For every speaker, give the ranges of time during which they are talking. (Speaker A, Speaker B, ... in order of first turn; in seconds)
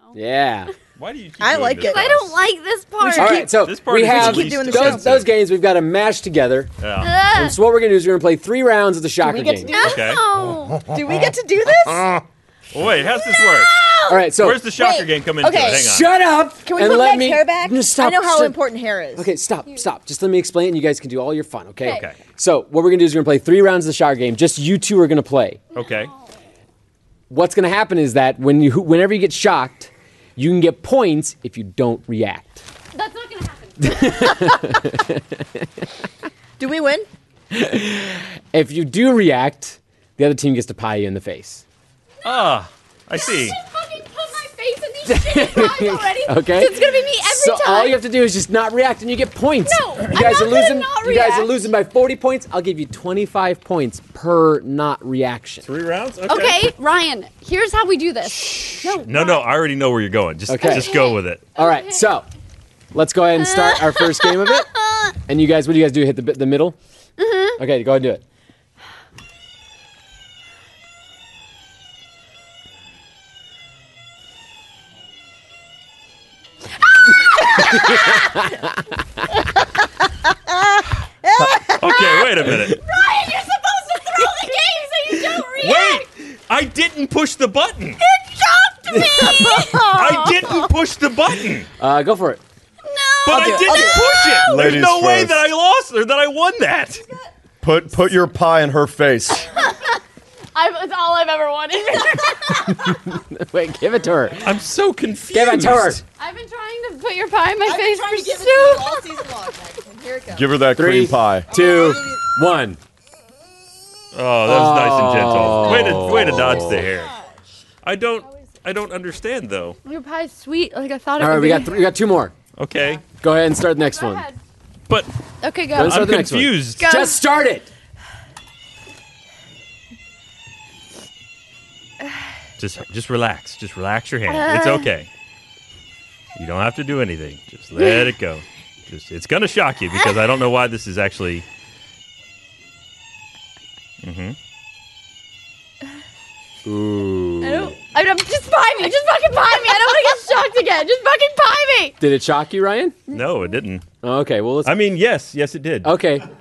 Speaker A: 0.1-0.7, 3.2-6.7, 7.3-9.8, 14.1-14.7, 15.6-18.6, 19.2-25.6, 27.3-32.6, 33.8-35.8, 37.5-41.6, 45.1-55.7, 60.5-61.0, 61.5-62.3, 62.9-64.7, 65.2-66.8, 67.6-68.2, 77.7-78.8, 88.9-89.3, 91.8-92.4, 102.6-104.6, 105.3-106.0, 110.8-112.8, 114.5-116.9, 121.2-122.3, 123.2-124.3, 125.7-127.7, 146.7-147.8, 152.0-153.0, 154.0-154.8, 155.8-156.3
Speaker B: 1.0-2.4, 3.4-5.3, 6.8-7.2, 9.8-10.2, 12.7-13.7, 14.3-16.1, 21.9-22.2, 25.8-26.1, 42.2-43.6, 55.6-56.6, 58.9-61.5, 81.7-82.8, 85.5-88.0, 89.8-91.7, 93.2-97.0, 104.4-106.0, 114.1-117.1, 117.8-119.8, 122.6-123.0, 125.7-126.9, 132.6-135.1, 136.4-141.4, 144.0-144.4, 153.1-153.8, 154.6-155.9
Speaker C: 1.4-2.3, 3.0-5.2, 9.2-10.1, 10.9-12.2, 13.3-15.9, 16.6-19.3, 36.6-37.1, 80.5-82.3, 88.9-90.6, 93.3-94.4, 107.7-110.5, 111.5-112.2
Speaker D: 1.9-3.5, 7.0-7.6, 9.7-10.8, 25.8-26.2, 32.9-34.6, 43.2-48.0, 49.6-51.6, 56.3-59.5, 60.6-62.0, 63.6-65.1, 67.2-67.6, 77.1-78.3, 82.6-86.1, 88.1-89.9, 92.8-94.4, 100.5-103.0, 106.2-109.0, 119.8-121.8, 123.8-124.4, 125.4-126.0, 126.8-127.2, 134.3-134.9, 147.4-152.0
Speaker E: 10.6-11.3, 11.8-12.1, 94.4-95.5, 97.6-99.6, 110.3-111.5